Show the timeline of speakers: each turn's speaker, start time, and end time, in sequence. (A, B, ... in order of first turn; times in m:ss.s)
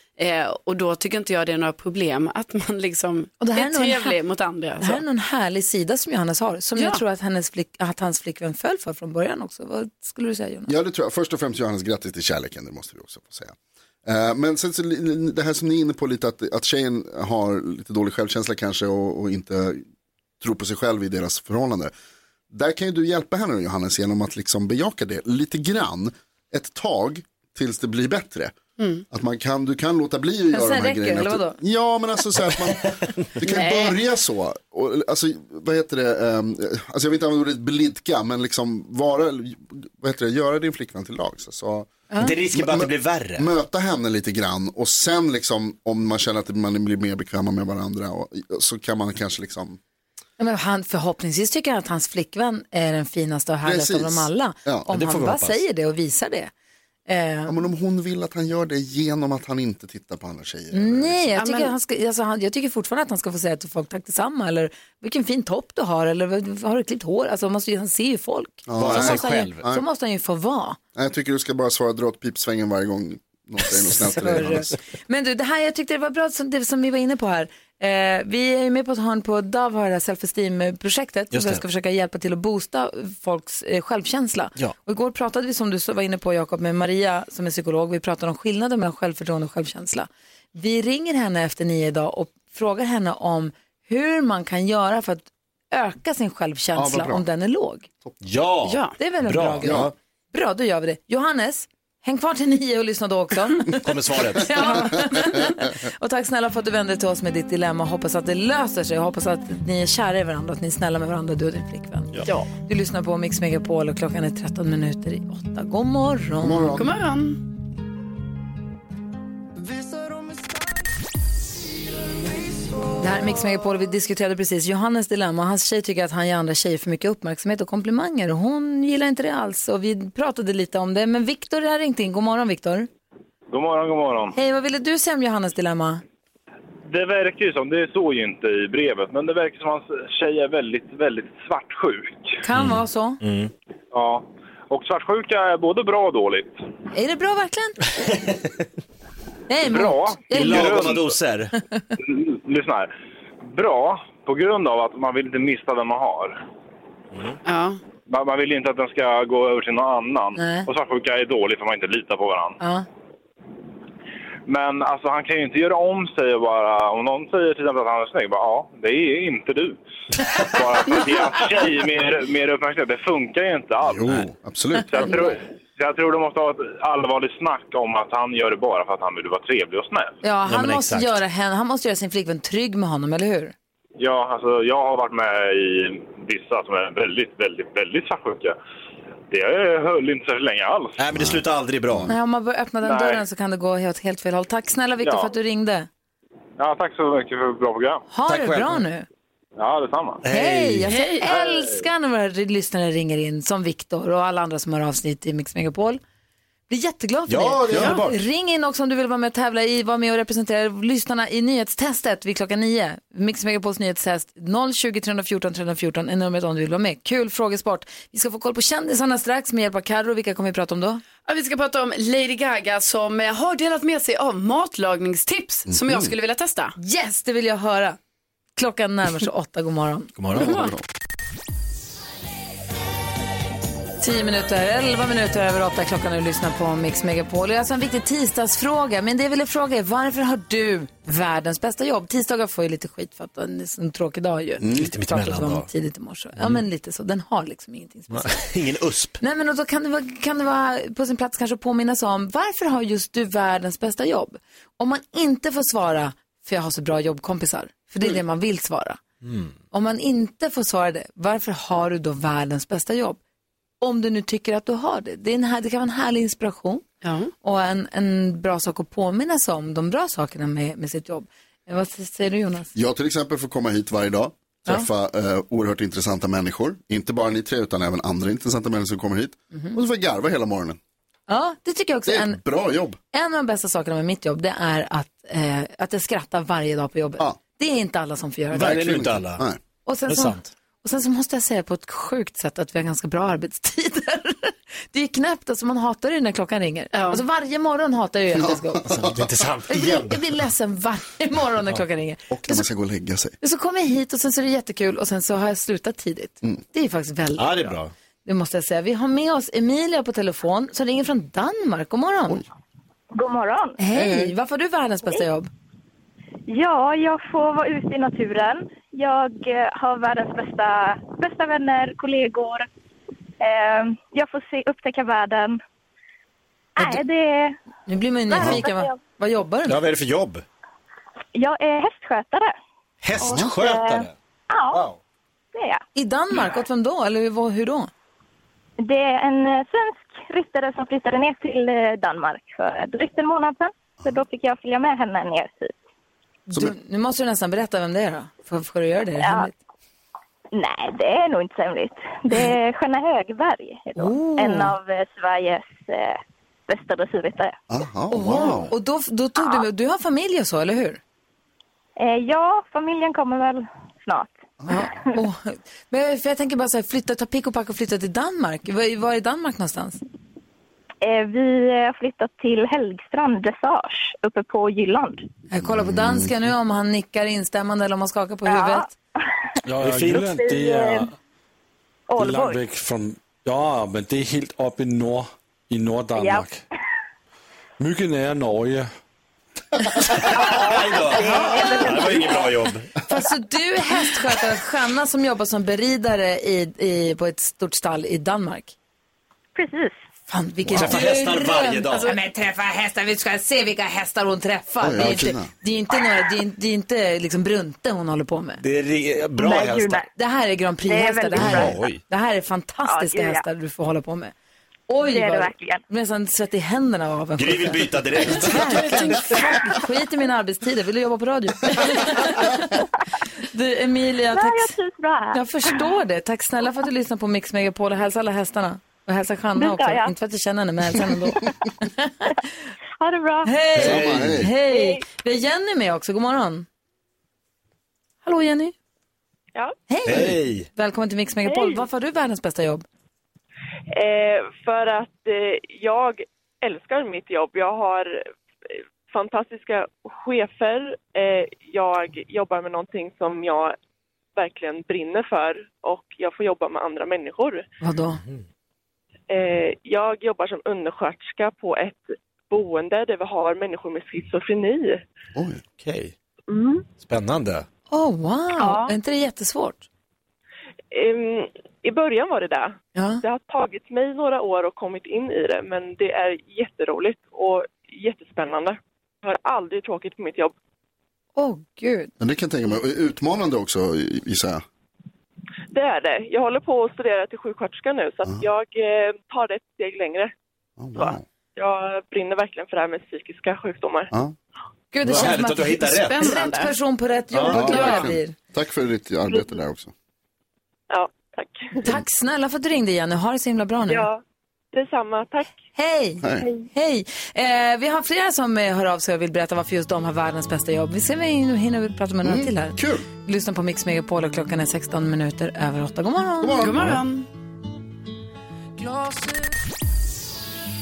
0:00.2-0:05.0 A
0:03.4-0:04.2 B
0:04.8-0:10.7 B
0:10.7-0:19.8 C
0:20.4-0:21.9 C
0:22.5-0:28.5 C
0:28.8-0:29.0 A
0:29.1-0:41.9 C
0:30.5-0:31.6 B
0:33.5-0:34.0 A
0:42.2-0:43.4 D
0:42.5-0:49.8 C
0:50.4-0:56.5 B
0:53.6-0:54.9 C
0:54.9-0:55.6 D
0:57.1-0:57.6 B
0:57.5-1:01.3 C
1:00.7-1:10.8 B
1:01.4-1:01.7 A
1:08.7-1:09.8 C
1:08.8-1:09.6 D
1:11.0-1:14.7 C
1:13.9-1:37.9 B
1:21.3-1:21.6 D
1:36.8-1:37.2 C
1:38.2-1:39.9 D
1:38.6-1:38.9 A
1:39.0-1:56.8 B
1:39.6-1:39.9 C
1:43.8-1:44.8 D
1:56.4-1:56.9 C
1:56.8-1:57.4 A
2:02.9-2:12.9 B
2:13.5-2:14.3 E
2:14.3-2:16.0 B
2:16.9-2:22.4 E
2:22.4-2:23.2 B
2:22.5-2:23.5 D
2:23.9-2:26.6 E
2:26.9-2:27.8 B
2:28.0-2:28.5 D
2:29.5-2:31.0 B
2:29.6-2:31.1 E
2:30.3-2:31.5 D
2:32.0-2:32.9 E
2:33.4-2:36.4 E
2:37.4-2:37.8 A
2:38.1-2:42.6 E
2:40.4-2:40.7 B
2:42.6-2:42.8 B
2:44.5-2:49.8 E
2:50.4-2:54.0 E
2:53.9-2:55.3 C
2:54.9-3:00.1 E
3:00.2-3:03.5 B
3:00.4-3:01.2 D
3:04.0-3:08.6 E
3:09.3-3:11.0 E
3:11.0-3:12.1 D
3:11.1-3:12.1 C
3:12.1-3:15.9 B
3:12.8-3:13.2 E
3:15.0-3:15.3 E
3:16.6-3:18.0 E
3:18.1-3:19.0 B
3:18.3-3:18.8 D
3:19.6-3:20.2 E
3:20.2-3:20.9 D
3:20.3-3:26.0 B
3:20.9-3:21.3 A
3:21.2-3:21.7 E
3:26.7-3:41.0 B
3:27.3-3:28.2 D
3:41.3-3:46.7 A
3:45.7-3:46.1 C
3:46.8-3:48.0 B
3:48.6-3:50.1 B
3:50.2-3:50.6 D
3:50.4-3:50.7 A
3:54.0-4:08.4 B
4:04.6-4:04.9 C
4:04.7-4:05.7 D
4:08.1-4:09.2 D
4:09.2-4:19.0 B
4:19.2-4:19.5 D
4:19.7-4:23.2 B
4:23.8-4:26.8 B
4:27.0-4:27.3 A
4:27.4-4:32.7 B
4:32.7-4:40.8 C
4:41.3-4:42.4 B
4:42.0-4:43.0 C
4:43.1-4:48.8 B
4:48.5-4:49.4 D
4:48.6-4:49.6 C
4:49.8-4:59.0 B
4:50.1-4:50.5 D
4:56.9-4:57.2 A
4:58.3-4:59.4 C
4:58.9-5:00.2 D
4:59.7-5:02.7 B
5:02.3-5:03.4 C
5:03.4-5:12.4 B
5:07.4-5:07.9 D
5:13.1-5:13.8 F
5:13.8-5:15.5 B
5:13.9-5:14.3 C
5:16.5-5:22.7 F
5:23.4-5:25.6 F
5:26.8-5:27.6 F
5:27.9-5:29.8 B
5:29.7-5:30.4 D
5:31.3-5:32.5 F
5:33.0-5:34.1 D
5:33.2-5:34.8 F
5:34.7-5:35.0 D
5:35.5-5:35.8 F
5:35.9-5:37.9 B
5:38.8-5:45.7 F
5:46.5-5:49.5 B
5:49.2-5:49.5 F
5:50.5-5:57.6 F
5:54.0-5:54.7 B
5:57.7-5:58.7 C
5:58.1-6:01.0 B
5:59.4-5:59.6 F
6:02.0-6:04.9 F
6:04.6-6:04.9 C
6:04.7-6:10.0 B
6:11.0-6:15.2 F
6:15.5-6:18.9 B
6:15.6-6:16.3 C
6:18.4-6:18.9 F
6:19.6-6:21.1 G
6:19.8-6:20.4 D
6:20.3-6:21.0 F
6:22.1-6:22.6 F
6:22.2-6:26.6 G
6:26.2-6:26.5 F
6:27.8-6:28.9 G
6:30.0-6:32.9 D
6:30.3-6:32.5 F
6:31.2-6:32.1 B
6:33.1-6:38.7 B
6:39.5-6:40.0 F
6:40.3-6:48.6 B
6:40.7-6:42.2 D
6:44.8-6:45.5 C
6:48.6-6:50.0 D
6:49.4-6:50.1 F
6:50.1-6:54.3 B
6:50.9-6:51.7 F
6:51.4-6:52.0 D
6:51.4-6:51.7 C
6:52.8-6:53.4 F
6:54.9-7:02.8 B
6:55.0-6:55.8 F
6:57.4-6:59.2 D
6:58.5-6:59.2 A
7:03.4-7:04.8 B
7:04.3-7:05.9 F
7:05.3-7:12.3 B
7:09.6-7:10.1 F
7:13.0-7:13.6 F
7:13.4-7:16.6 B
7:13.8-7:14.5 D
7:13.8-7:14.5 C
7:14.6-7:15.0 F
7:18.2-7:18.7 B
7:19.9-7:22.8 B
7:20.0-7:20.7 D
7:23.9-7:33.8 H
7:34.4-7:37.6 H
7:37.8-7:38.2 B
7:39.3-7:45.0 H
7:45.3-7:45.6 C
7:45.8-7:46.1 D
7:47.0-7:47.6 D
7:47.9-7:49.8 B
7:50.9-8:00.5 H
7:53.0-7:53.2 B
8:01.4-8:02.1 B
8:02.2-8:04.6 C
8:05.7-8:10.3 H
8:10.8-8:11.2 C
8:10.9-8:14.1 H
8:14.9-8:18.3 B
8:15.0-8:16.3 D
8:16.1-8:16.7 A
8:17.4-8:19.9 C
8:17.6-8:17.9 D
8:20.9-8:21.8 H
8:21.8-8:24.1 B
8:23.9-8:24.2 H
8:24.7-8:25.5 H
8:25.8-8:36.7 B
8:26.2-8:26.5 C
8:32.2-8:33.0 C
8:36.4-8:37.0 C
8:36.6-8:37.2 A